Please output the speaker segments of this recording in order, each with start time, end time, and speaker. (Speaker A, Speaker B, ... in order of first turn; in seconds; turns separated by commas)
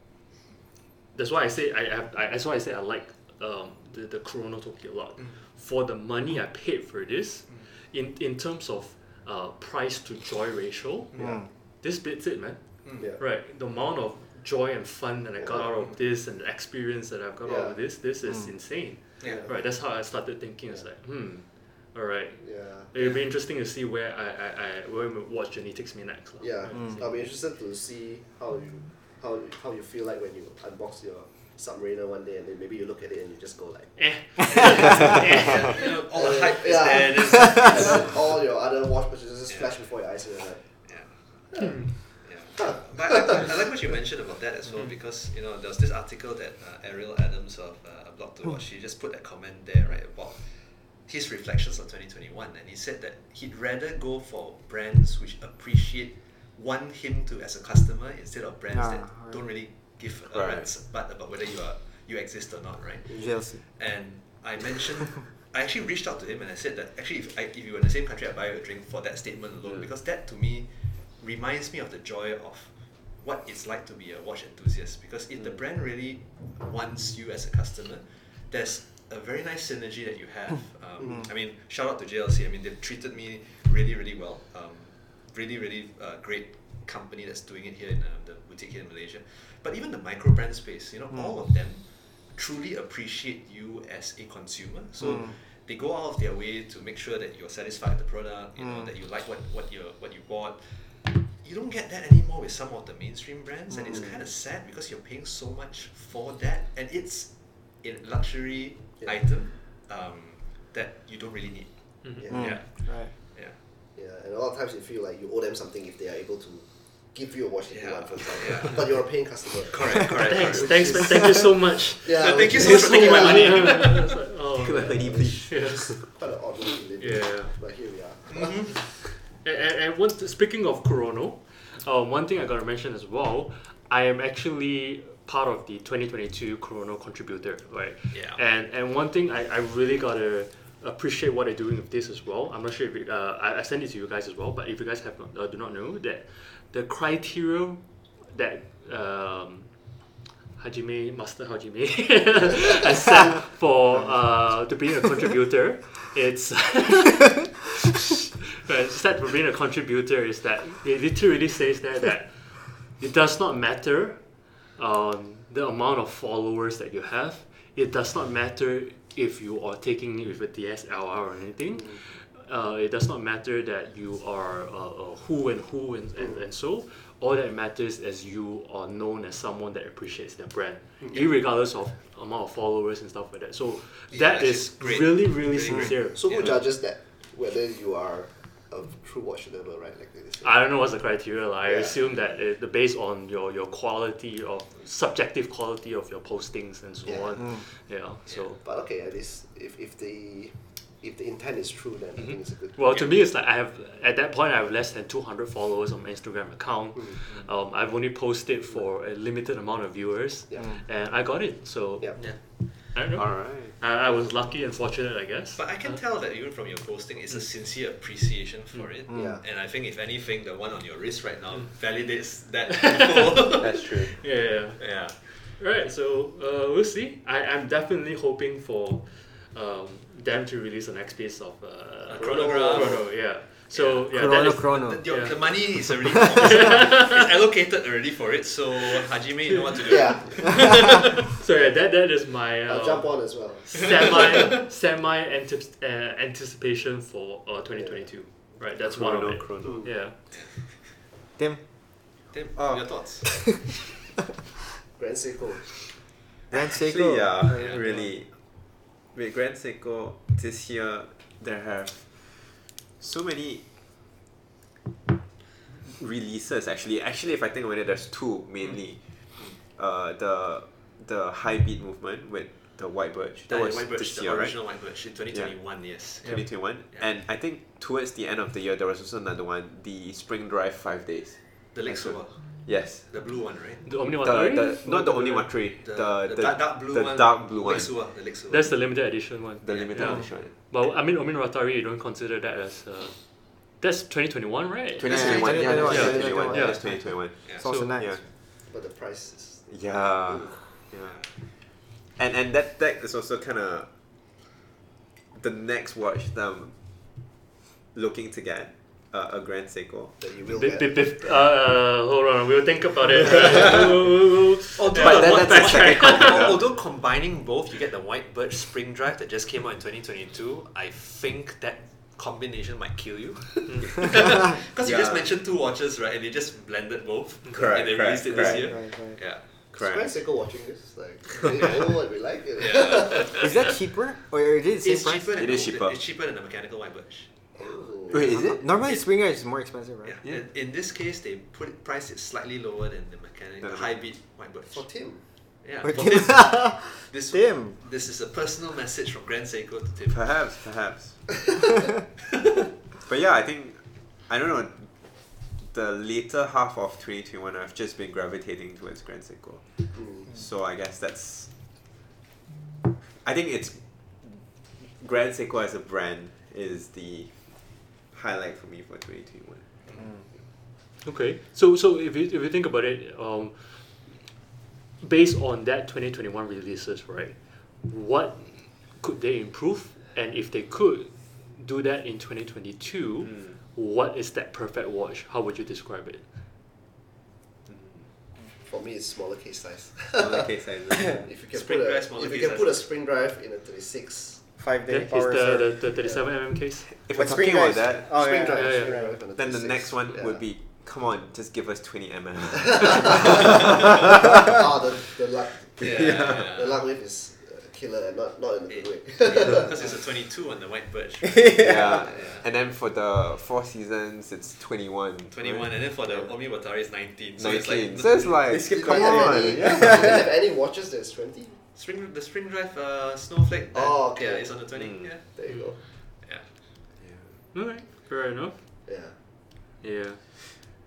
Speaker A: 1.1-27.3, Speaker B: 11.2-11.4, Speaker C: 12.8-13.1, Speaker B: 15.4-15.8, Speaker B: 17.4-17.8, Speaker C: 19.2-19.4, Speaker B: 19.2-19.7, Speaker B: 22.4-23.2, Speaker B: 26.4-35.4, Speaker A: 34.0-36.0, Speaker C: 34.5-38.3, Speaker B: 36.1-40.8, Speaker C: 39.5-39.8, Speaker C: 40.8-113.5, Speaker B: 41.5-43.4, Speaker A: 41.6-41.9, Speaker D: 58.7-59.4, Speaker E: 60.3-60.7, Speaker D: 63.1-63.6, Speaker A: 112.0-112.7, Speaker B: 112.2-112.6, Speaker D: 112.3-113.1, Speaker B: 113.9-120.3, Speaker C: 117.7-119.1, Speaker C: 119.7-121.1, Speaker A: 120.2-126.0, Speaker B: 122.0-123.9, Speaker C: 122.1-124.2, Speaker E: 124.5-126.0, Speaker B: 124.8-128.8, Speaker A: 127.0-127.5, Speaker C: 128.3-128.8, Speaker A: 129.2-150.0, Speaker C: 138.1-138.4, Speaker A: 150.6-186.5, Speaker C: 184.1-186.6, Speaker B: 186.1-190.6, Speaker A: 190.4-198.6, Speaker B: 191.7-192.0, Speaker B: 197.0-197.6, Speaker B: 198.6-202.8, Speaker A: 202.2-216.0, Speaker B: 210.5-210.8, Speaker E: 213.1-213.8, Speaker C: 215.6-223.9, Speaker D: 219.1-219.3, Speaker B: 219.1-219.4, Speaker A: 222.7-237.3, Speaker E: 223.6-224.1, Speaker C: 224.8-225.3, Speaker C: 232.1-233.1, Speaker B: 232.1-233.1, Speaker C: 233.7-241.0, Speaker D: 234.1-235.5, Speaker D: 236.1-236.4, Speaker B: 239.8-240.8, Speaker A: 240.3-240.6, Speaker A: 241.3-250.2, Speaker B: 242.7-244.2, Speaker B: 247.7-248.1, Speaker E: 248.8-249.9, Speaker C: 250.3-250.6, Speaker D: 251.4-251.6, Speaker C: 252.3-253.5, Speaker E: 252.5-253.4, Speaker B: 254.9-255.8, Speaker E: 256.5-263.6, Speaker D: 256.5-257.8, Speaker C: 257.5-257.8, Speaker E: 265.9-283.1, Speaker C: 273.5-277.1, Speaker C: 281.7-283.9, Speaker A: 283.8-285.5, Speaker E: 284.1-287.9, Speaker C: 285.8-288.7, Speaker A: 288.5-298.0, Speaker E: 289.6-290.5, Speaker C: 289.7-290.4, Speaker E: 295.0-298.2, Speaker D: 295.1-298.2, Speaker B: 298.7-300.7, Speaker E: 299.7-301.2, Speaker C: 301.0-301.3, Speaker E: 302.1-303.9, Speaker E: 305.3-307.3, Speaker E: 307.9-310.2, Speaker B: 310.2-311.0, Speaker A: 310.5-316.5, Speaker E: 313.4-313.9, Speaker C: 314.8-329.4, Speaker E: 314.8-316.6, Speaker E: 324.8-325.3, Speaker E: 327.5-328.8, Speaker D: 328.3-329.2, Speaker E: 329.7-330.1, Speaker B: 329.8-333.4, Speaker C: 332.6-333.7, Speaker D: 333.4-335.3, Speaker C: 334.8-337.3, Speaker E: 335.4-336.0, Speaker B: 337.5-338.4, Speaker E: 338.1-338.6, Speaker D: 338.3-340.2, Speaker C: 340.0-344.8, Speaker E: 343.6-343.9, Speaker B: 344.7-345.2, Speaker C: 345.6-350.2, Speaker D: 345.8-347.7, Speaker E: 350.1-351.2, Speaker E: 353.0-361.5, Speaker B: 359.9-360.3, Speaker E: 363.2-369.7, Speaker A: 371.0-374.2, Speaker A: 375.0-386.2, Speaker B: 388.6-394.4, Speaker E: 390.1-391.3, Speaker C: 391.5-392.9, Speaker D: 394.6-395.8, Speaker A: 394.9-396.9, Speaker E: 397.0-398.2, Speaker D: 397.1-399.2, Speaker B: 398.1-400.4, Speaker A: 398.5-399.0, Speaker E: 399.3-404.4, Speaker B: 402.7-409.8, Speaker C: 405.8-406.8, Speaker E: 405.8-406.3, Speaker C: 408.7-412.4, Speaker D: 411.4-411.8, Speaker E: 411.5-415.9, Speaker C: 415.3-418.5, Speaker E: 417.4-420.3, Speaker B: 418.5-421.6, Speaker D: 418.6-420.1, Speaker C: 421.7-425.3, Speaker B: 423.7-425.8, Speaker A: 425.4-425.7, Speaker C: 426.0-426.5, Speaker E: 427.0-427.3, Speaker A: 427.5-428.6, Speaker B: 428.9-429.1, Speaker A: 429.8-430.2